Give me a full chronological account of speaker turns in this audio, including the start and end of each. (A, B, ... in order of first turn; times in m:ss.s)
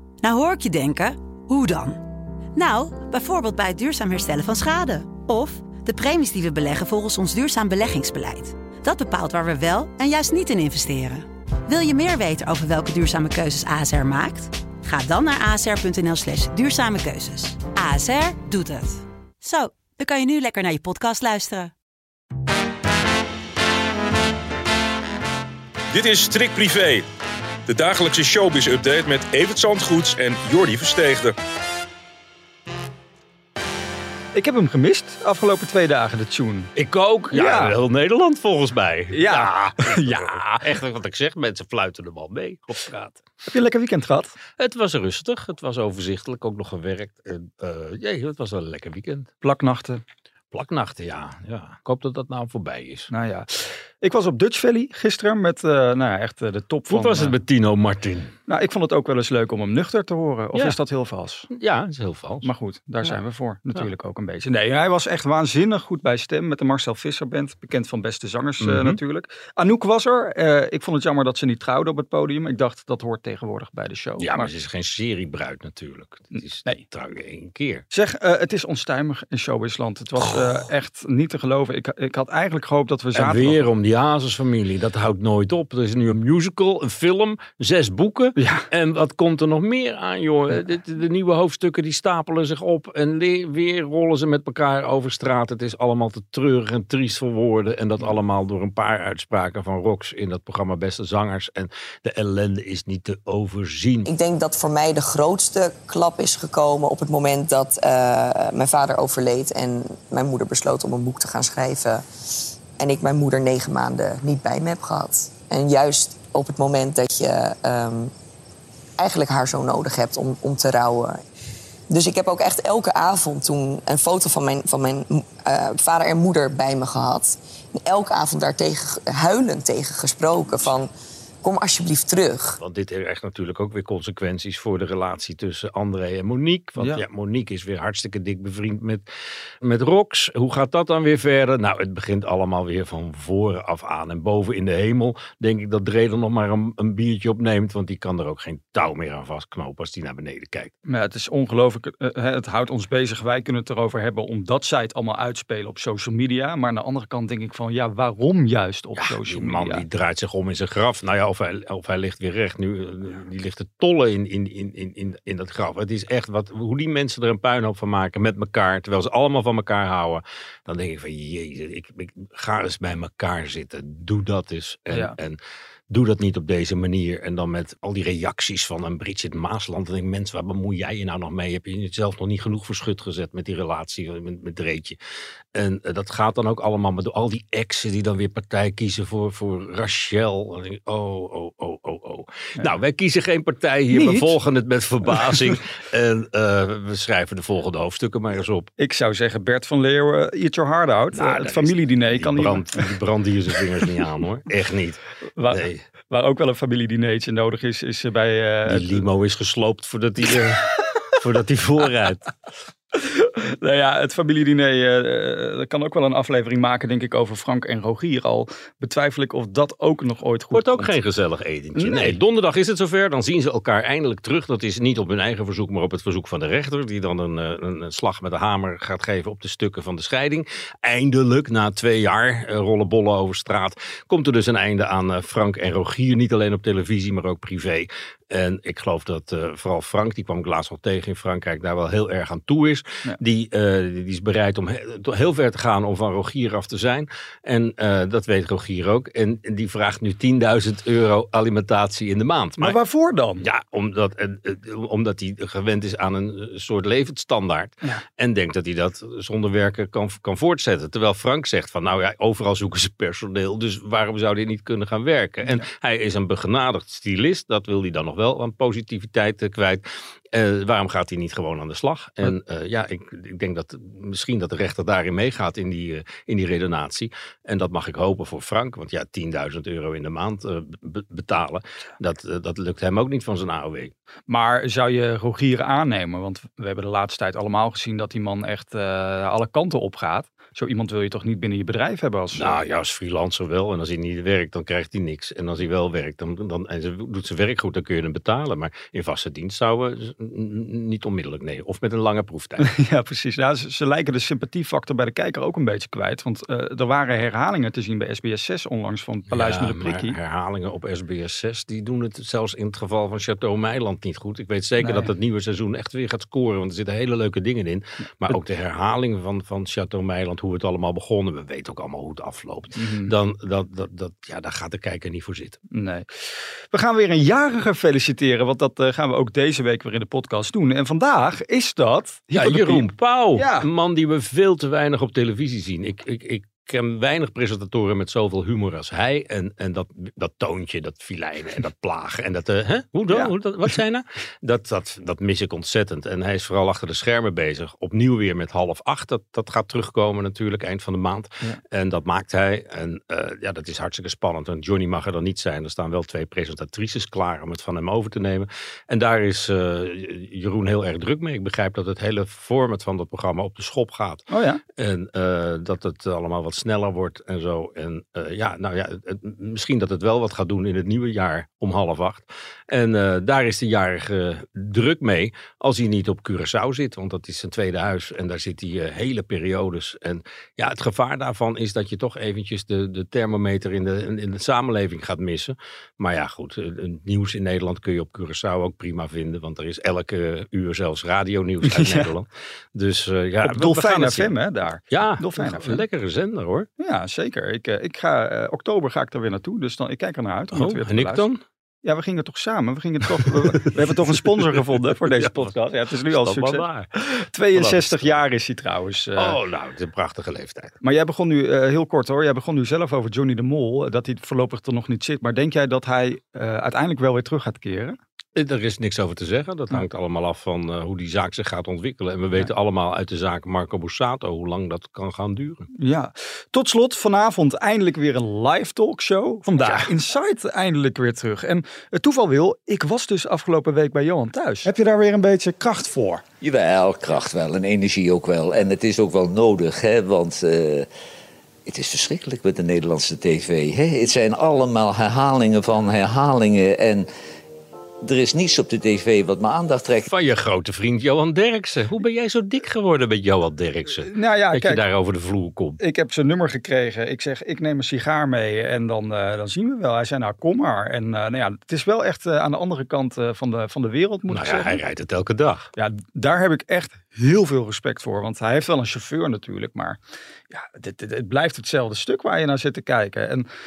0:00.2-0:02.0 A
0:02.5-0:21.7 A
0:25.9-0:27.1 B
0:27.7-0:31.4 B
0:34.3-0:36.7 C
0:36.8-0:43.2 D
0:37.3-0:37.8 C
0:39.1-0:40.4 C
0:43.4-0:44.3 C
0:44.6-0:49.3 D
0:49.4-0:50.0 C
0:50.5-0:53.1 D
0:53.1-0:57.4 C
0:56.9-0:58.3 D
0:58.5-1:01.5 C
1:01.5-1:02.5 D
1:02.4-1:14.5 C
1:08.6-1:09.0 D
1:14.2-1:17.8 D
1:17.9-1:23.6 C
1:23.1-1:44.1 D
1:28.4-1:28.6 C
1:44.0-1:52.0 E
1:52.8-1:58.1 E
1:59.0-2:01.2 E
2:01.9-2:10.9 E
2:11.4-2:12.6 E
2:12.6-2:19.0 D
2:16.8-2:17.0 C
2:19.6-2:30.7 D
2:30.8-2:39.8 C
2:39.0-2:55.4 D
2:54.9-2:55.2 C
2:55.9-3:05.0 D
3:05.5-3:18.7 D
3:13.9-3:14.3 C
3:18.8-3:22.9 C
3:21.1-3:25.8 D
3:25.4-3:29.0 C
3:28.7-3:32.3 D
3:32.9-3:41.0 C
3:40.5-4:12.8 D
3:41.7-3:42.2 C
4:12.6-4:13.4 C
4:13.4-4:43.9 D
4:44.3-4:52.6 C
4:52.3-5:02.7 D
5:02.6-5:10.2 C
5:09.3-5:25.6 D
5:14.8-5:15.1 C
5:22.8-5:23.1 C
5:25.7-5:33.7 C
5:32.3-6:04.2 D
6:04.3-6:04.6 C
6:04.8-6:34.3 D
6:31.6-6:32.1 C
6:33.4-6:35.8 C
6:34.9-6:36.7 D
6:36.8-6:41.3 C
6:40.5-6:41.4 D
6:41.8-6:49.4 C
6:43.2-6:43.7 D
6:44.3-6:45.5 D
6:46.1-6:46.9 D
6:47.5-6:48.2 D
6:49.2-6:50.8 D
6:50.8-6:58.0 C
6:58.4-7:05.7 D
7:05.8-7:16.2 C
7:16.4-7:20.8 F
7:21.6-7:27.1 F
7:28.0-7:30.1 F
7:30.1-7:35.8 D
7:34.0-7:34.8 C
7:35.8-7:44.8 C
7:44.3-7:45.7 D
7:45.8-7:50.0 C
7:50.5-7:53.4 C